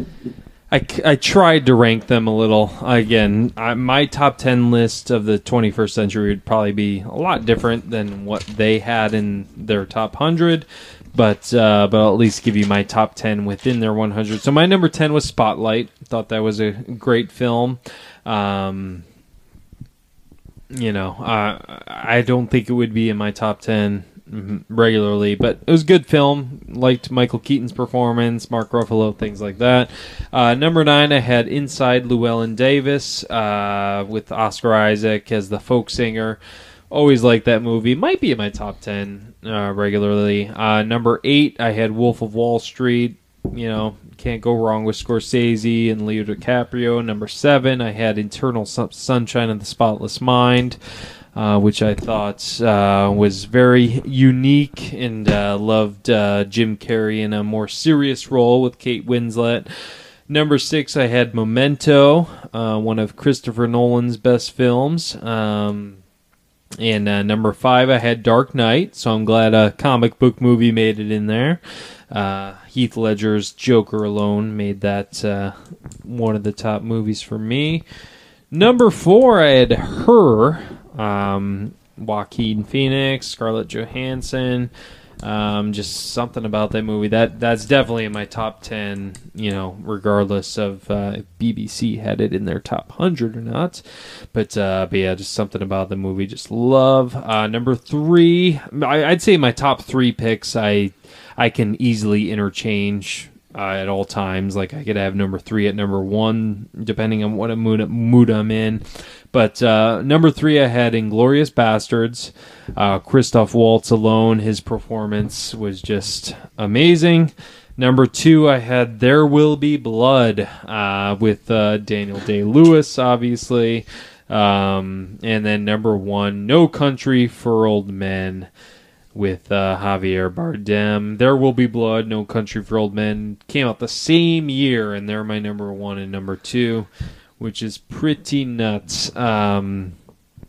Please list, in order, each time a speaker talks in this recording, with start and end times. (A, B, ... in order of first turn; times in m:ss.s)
0:00.7-0:19.0 A
0:20.7-0:36.4 A
0:36.9-0:50.8 A
0:51.4-0:59.7 A
1:00.3-1:06.0 A
1:06.8-1:11.6 A
1:12.1-1:17.8 A
1:18.5-1:24.7 A
1:25.2-1:33.8 A
1:34.3-2:08.5 A
2:09.2-2:16.9 A
2:17.4-2:20.0 A